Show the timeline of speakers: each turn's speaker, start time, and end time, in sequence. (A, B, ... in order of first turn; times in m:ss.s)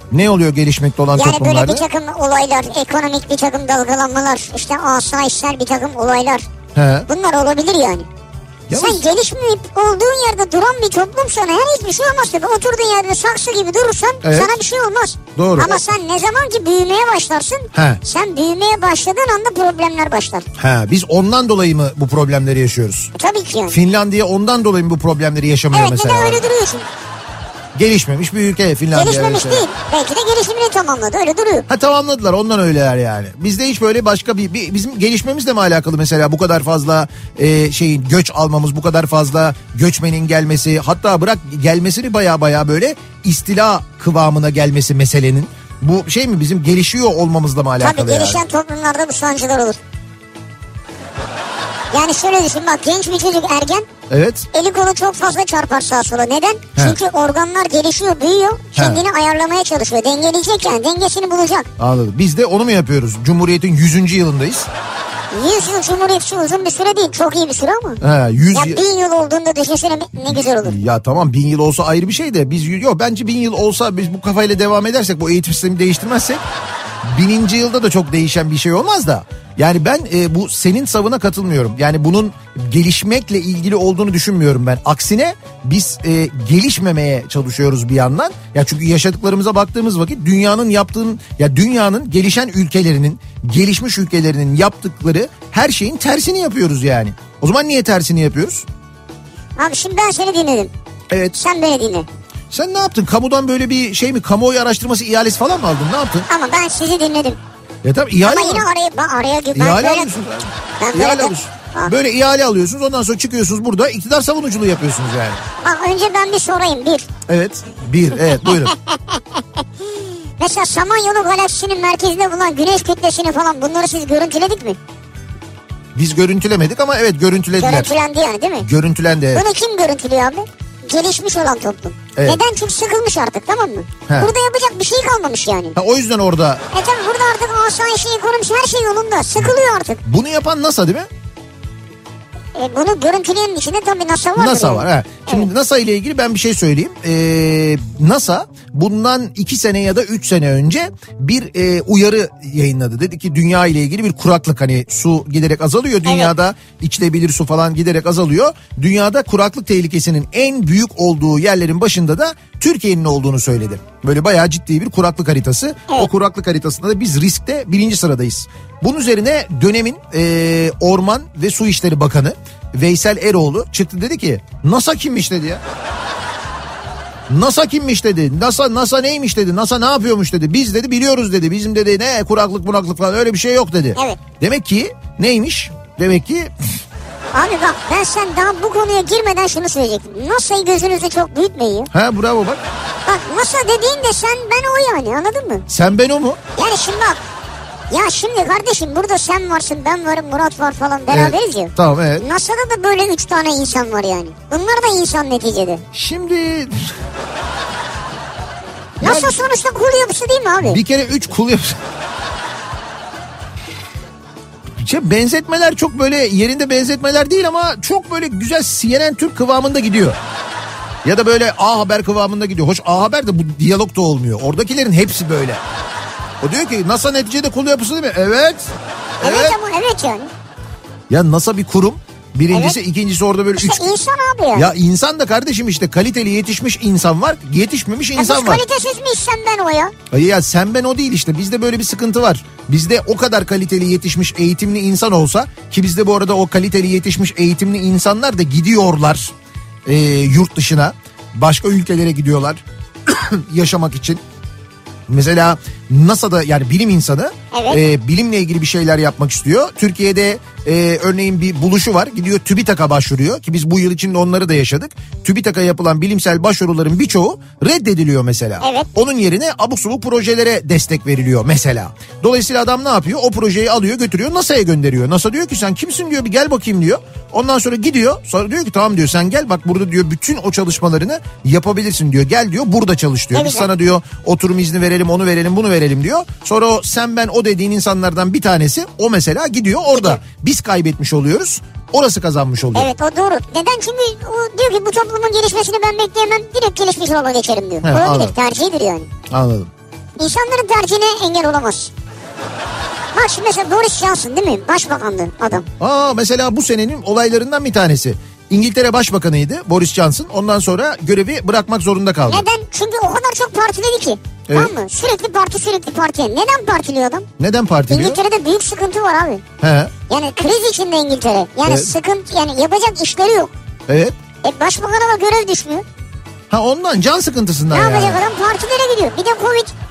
0:00.1-0:01.8 A
0:01.1-0:06.5 B
0:06.7-0:07.1 A
0:07.1-0:08.1 B
0:08.7-0:09.0 A
0:08.7-0:20.5 B
0:14.2-0:14.6 A
0:15.4-0:15.8 A
0:17.7-0:18.0 A
0:20.6-0:23.1 A
0:23.1-0:23.8 B
0:23.7-0:26.5 A
0:25.7-0:26.9 B
0:27.7-0:29.6 A
0:28.9-0:31.7 B
0:31.7-0:48.4 A
0:47.8-0:49.8 B
0:51.9-0:53.9 B
0:54.1-0:54.5 A
0:54.5-1:01.6 B
0:58.7-0:59.0 A
1:01.8-1:04.7 A
1:05.3-1:08.0 B
1:08.0-1:08.8 A
1:08.5-1:10.8 B
1:10.3-1:16.4 A
1:17.0-1:38.6 A
1:39.6-1:40.7 B
1:41.1-1:41.4 A
1:41.4-1:42.1 B
1:42.5-1:46.3 A
1:46.3-1:47.4 B
1:47.8-1:48.6 A
1:48.2-1:50.1 B
1:49.5-1:55.4 A
1:50.8-1:51.9 B
1:55.6-1:57.1 B
1:57.3-1:58.7 A
1:58.4-1:59.6 B
2:00.4-2:04.8 B
2:05.9-2:07.9 A
2:07.6-2:08.7 B
2:08.6-2:09.4 A
2:09.3-2:15.8 B
2:12.2-2:12.4 A
2:14.1-2:14.3 A
2:15.8-2:16.6 A
2:16.7-2:20.0 B
2:20.0-2:21.1 A
2:22.5-2:25.4 B
2:24.4-2:55.6 A
2:36.0-2:36.3 B
2:57.3-3:06.5 A
3:07.3-3:11.9 B
3:11.9-3:12.6 A
3:13.0-3:15.6 B
3:15.7-3:16.4 A
3:16.6-3:17.2 B
3:17.9-3:25.8 B
3:21.1-3:22.2 A
3:25.9-3:26.9 A
3:29.0-3:29.4 A
3:29.0-3:30.8 B
3:30.6-3:31.8 A
3:34.8-3:40.2 A
3:41.0-3:45.6 A
3:46.4-3:49.6 A
3:49.2-3:50.3 B
3:51.1-3:54.0 A
3:52.5-3:52.8 B
3:53.6-3:54.7 B
3:54.5-3:58.6 A
3:58.2-3:59.9 B
4:00.1-4:09.3 A
4:09.8-4:14.2 A
4:15.1-4:52.9 A
4:17.5-4:17.8 B
4:28.6-4:28.9 B
4:43.3-4:43.7 B
4:52.7-4:59.1 B
4:57.8-4:58.3 A
4:59.3-4:59.7 A
5:00.2-5:01.9 B
5:03.1-5:05.6 B
5:05.7-5:12.4 A
5:12.2-5:17.2 B
5:14.5-5:14.7 A
5:17.4-5:18.2 A
5:17.9-5:19.4 B
5:19.6-5:19.9 A
5:20.1-5:23.5 B
5:21.6-5:21.9 A
5:23.9-5:24.1 A
5:24.4-5:25.8 B
5:26.5-5:28.2 A
5:27.7-5:29.7 B